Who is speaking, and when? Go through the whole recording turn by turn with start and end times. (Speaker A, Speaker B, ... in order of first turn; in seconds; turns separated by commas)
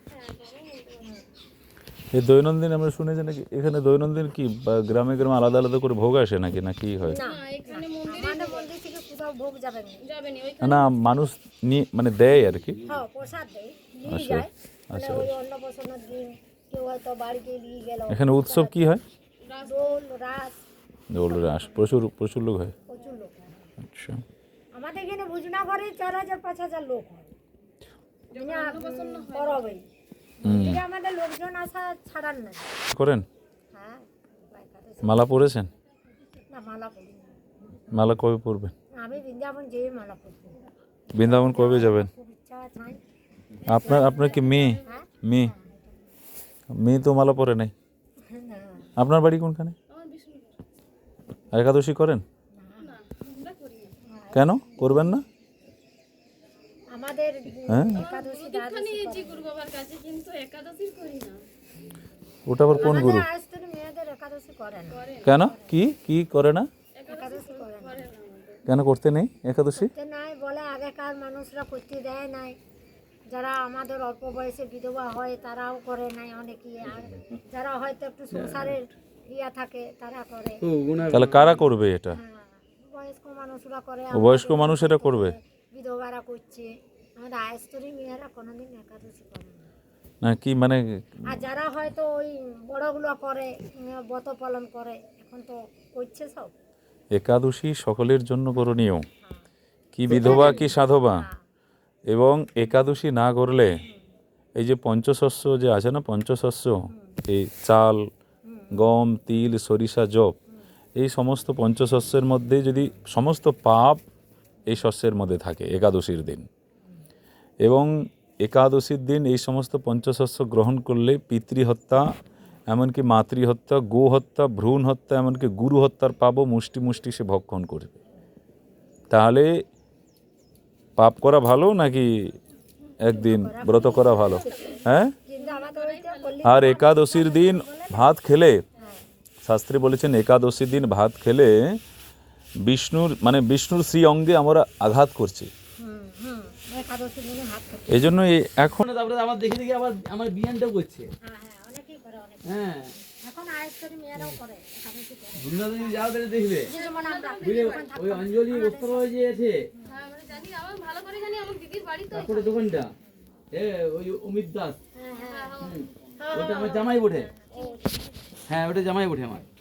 Speaker A: 0.1-1.1, Speaker B: 2.1-7.2, Speaker C: 7.0-10.1, Speaker A: 7.1-8.7, Speaker A: 10.0-10.9, Speaker B: 10.6-12.8, Speaker C: 12.8-18.9, Speaker B: 14.1-15.3, Speaker B: 18.1-19.0, Speaker A: 19.4-20.0, Speaker C: 19.6-20.6, Speaker B: 21.1-22.8, Speaker C: 21.2-22.1, Speaker C: 22.9-23.7, Speaker B: 23.8-24.2, Speaker C: 24.7-27.3, Speaker A: 28.3-29.7, Speaker C: 28.3-29.9, Speaker C: 30.4-32.7, Speaker B: 30.4-30.8, Speaker B: 32.9-33.3, Speaker C: 33.7-35.3, Speaker B: 35.0-35.7, Speaker C: 36.5-37.8, Speaker B: 37.9-38.7, Speaker C: 38.9-40.6, Speaker B: 41.1-42.1, Speaker C: 41.1-43.0, Speaker A: 43.6-45.0, Speaker B: 43.6-45.5, Speaker C: 43.9-46.0, Speaker B: 46.7-47.7, Speaker C: 48.2-48.9, Speaker B: 49.0-49.8, Speaker A: 49.9-50.6, Speaker B: 51.5-52.2, Speaker C: 52.5-52.9, Speaker A: 52.8-54.0, Speaker C: 54.0-55.1, Speaker B: 54.3-55.2, Speaker C: 56.9-59.5, Speaker B: 57.7-58.0, Speaker A: 57.9-61.4, Speaker B: 62.5-63.3, Speaker C: 62.7-65.7, Speaker A: 62.8-63.1, Speaker A: 64.9-65.3, Speaker B: 65.2-66.7, Speaker A: 67.0-68.6, Speaker C: 67.1-68.1, Speaker B: 68.7-69.9, Speaker C: 69.8-72.6, Speaker C: 73.3-80.6, Speaker D: 78.3-78.8, Speaker D: 80.6-81.7, Speaker B: 81.1-82.2, Speaker C: 82.1-89.7, Speaker B: 84.1-85.3, Speaker B: 90.2-91.4, Speaker C: 91.3-96.5, Speaker B: 97.1-99.0, Speaker B: 99.9-101.3, Speaker D: 100.1-100.6, Speaker C: 100.1-101.4, Speaker B: 102.1-103.8, Speaker C: 103.8-104.1, Speaker B: 104.5-108.1, Speaker C: 106.9-107.2, Speaker C: 108.5-108.7, Speaker B: 108.7-110.3, Speaker B: 111.0-114.0, Speaker B: 114.7-116.5, Speaker B: 117.6-122.1, Speaker B: 122.7-128.0, Speaker B: 129.1-129.6, Speaker B: 131.0-132.4, Speaker B: 133.0-135.1, Speaker C: 133.0-138.2, Speaker A: 133.9-134.8, Speaker A: 135.3-136.5, Speaker B: 136.4-138.6, Speaker C: 138.8-139.1, Speaker B: 139.4-141.8, Speaker B: 142.6-145.5, Speaker C: 145.8-148.2, Speaker B: 147.9-148.8, Speaker D: 148.8-151.1, Speaker C: 151.2-156.1, Speaker D: 152.4-152.9, Speaker D: 155.4-156.7, Speaker C: 156.6-159.1, Speaker A: 156.7-157.9, Speaker D: 157.4-159.7, Speaker A: 159.8-162.8, Speaker D: 162.1-162.9, Speaker D: 163.5-164.8, Speaker C: 164.9-168.4, Speaker A: 165.1-167.0, Speaker D: 165.6-167.3, Speaker A: 167.5-167.8, Speaker D: 168.5-169.5